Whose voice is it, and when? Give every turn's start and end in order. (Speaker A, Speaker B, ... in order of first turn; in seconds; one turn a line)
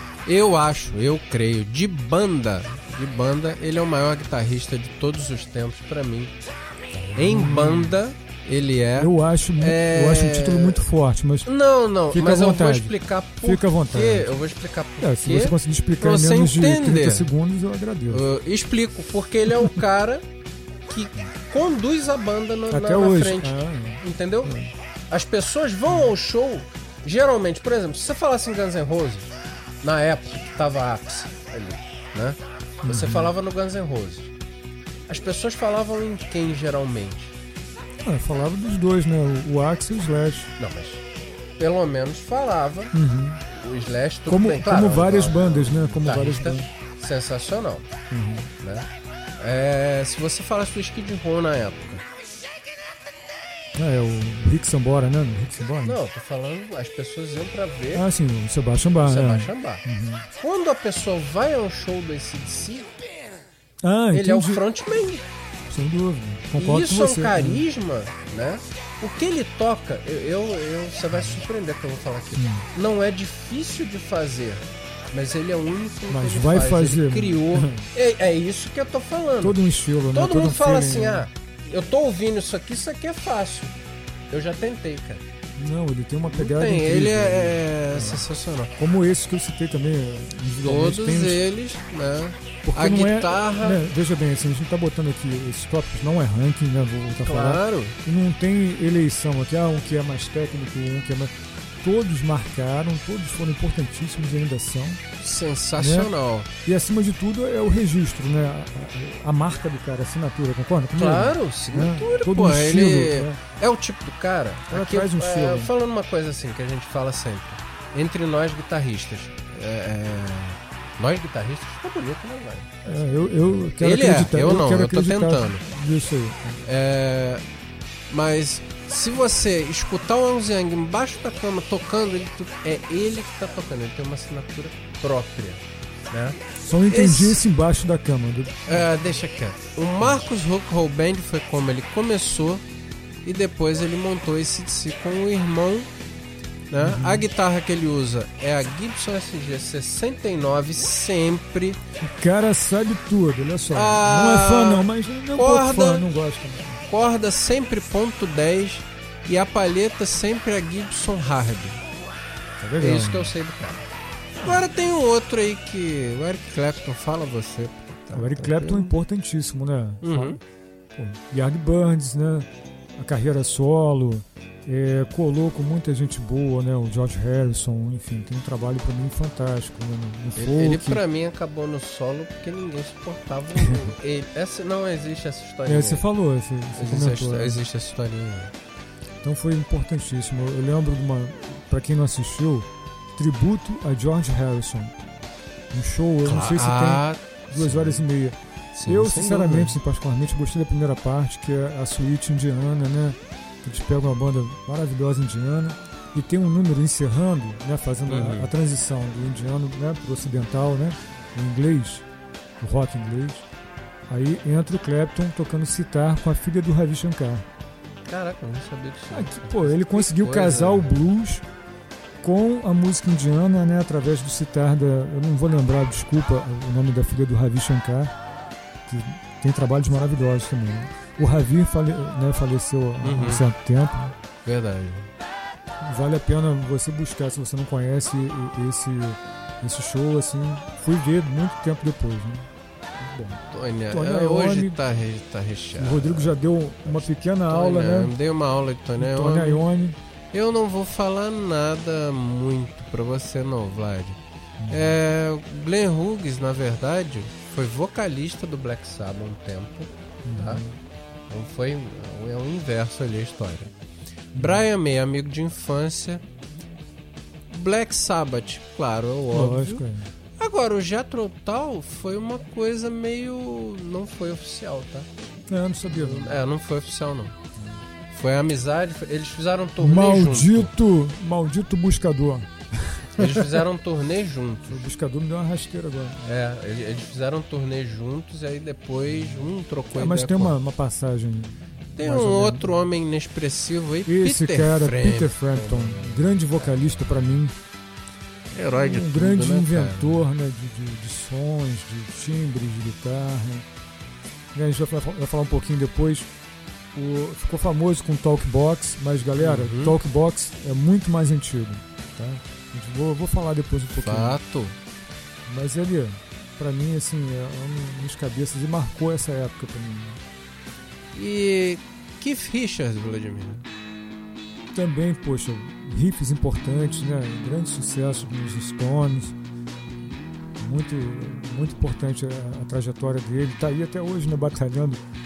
Speaker A: 0.2-6.3
Speaker A: 7.0-10.8
Speaker B: 7.2-8.0
Speaker B: 9.0-11.5
Speaker A: 11.4-17.3
Speaker B: 12.1-14.3
Speaker B: 15.0-18.2
Speaker A: 18.1-20.2
Speaker A: 20.9-24.6
Speaker B: 22.7-24.7
Speaker A: 25.1-29.3
Speaker A: 29.8-34.3
Speaker B: 32.8-33.3
Speaker A: 35.1-37.4
Speaker B: 38.0-40.5
Speaker A: 40.6-41.0
Speaker A: 41.6-43.0
Speaker B: 42.9-43.4
Speaker A: 43.5-47.9
Speaker B: 44.3-46.7
Speaker B: 48.1-48.5
Speaker A: 48.6-48.9
Speaker A: 49.4-52.0
Speaker B: 53.8-56.0
Speaker A: 55.8-58.1
Speaker B: 57.9-60.3
Speaker A: 59.0-59.8
Speaker A: 60.4-63.2
Speaker B: 63.8-64.6
Speaker A: 64.1-65.3
Speaker B: 65.7-67.7
Speaker A: 66.6-83.8
Speaker B: 72.4-72.7
Speaker B: 76.1-77.9
Speaker B: 79.4-81.3
Speaker A: 84.3-85.2
Speaker B: 85.6-91.5
Speaker A: 86.3-88.8
Speaker A: 90.6-93.8
Speaker B: 92.6-105.0
Speaker A: 97.2-98.0
Speaker A: 105.2-106.5
Speaker B: 105.8-106.1
Speaker B: 106.6-113.4
Speaker A: 110.9-123.0
Speaker B: 114.7-115.7
Speaker B: 122.9-126.6
Speaker A: 123.7-125.6
Speaker A: 126.6-127.4
Speaker A: 128.1-137.4
Speaker B: 136.6-138.9
Speaker A: 138.7-142.6
Speaker A: 143.2-145.9
Speaker A: 146.7-151.8
Speaker B: 146.8-147.2
Speaker B: 152.0-156.8
Speaker A: 153.7-156.1
Speaker A: 156.9-161.8
Speaker B: 162.6-163.3
Speaker A: 162.8-163.8
Speaker A: 164.4-169.0
Speaker B: 168.1-170.4
Speaker A: 170.0-170.4
Speaker B: 171.0-181.0
Speaker A: 180.4-186.1
Speaker B: 183.6-183.9
Speaker B: 185.7-187.6
Speaker A: 186.8-188.5
Speaker B: 189.2-194.9
Speaker B: 195.7-212.1
Speaker A: 196.2-198.1
Speaker A: 198.8-199.8
Speaker A: 208.1-208.5
Speaker B: 212.6-213.5
Speaker B: 214.1-217.5
Speaker A: 218.1-221.1
Speaker B: 219.1-221.4
Speaker B: 222.2-228.1
Speaker B: 228.9-234.1
Speaker A: 233.0-233.5
Speaker A: 234.4-235.1
Speaker B: 235.8-244.8
Speaker A: 243.5-249.6
Speaker B: 245.8-248.2
Speaker B: 249.0-250.0
Speaker A: 250.3-260.6
Speaker B: 254.6-255.0
Speaker B: 260.2-260.8
Speaker A: 261.3-263.7
Speaker B: 264.4-264.6
Speaker A: 264.4-266.2
Speaker A: 267.5-269.9
Speaker B: 269.3-270.1
Speaker A: 270.4-275.1
Speaker B: 275.5-276.4
Speaker A: 275.9-277.4
Speaker B: 277.6-277.8
Speaker A: 278.1-280.7
Speaker B: 279.8-283.6
Speaker A: 283.2-284.8
Speaker B: 284.7-286.3
Speaker A: 286.3-290.6
Speaker B: 289.9-292.7
Speaker A: 292.0-296.8
Speaker B: 294.1-297.6
Speaker A: 298.5-300.3
Speaker B: 298.8-303.7
Speaker B: 304.5-306.3
Speaker B: 306.9-314.4
Speaker A: 309.4-310.0
Speaker A: 314.0-314.8
Speaker B: 315.5-320.2
Speaker A: 321.1-323.7
Speaker B: 324.7-329.4
Speaker B: 330.6-335.0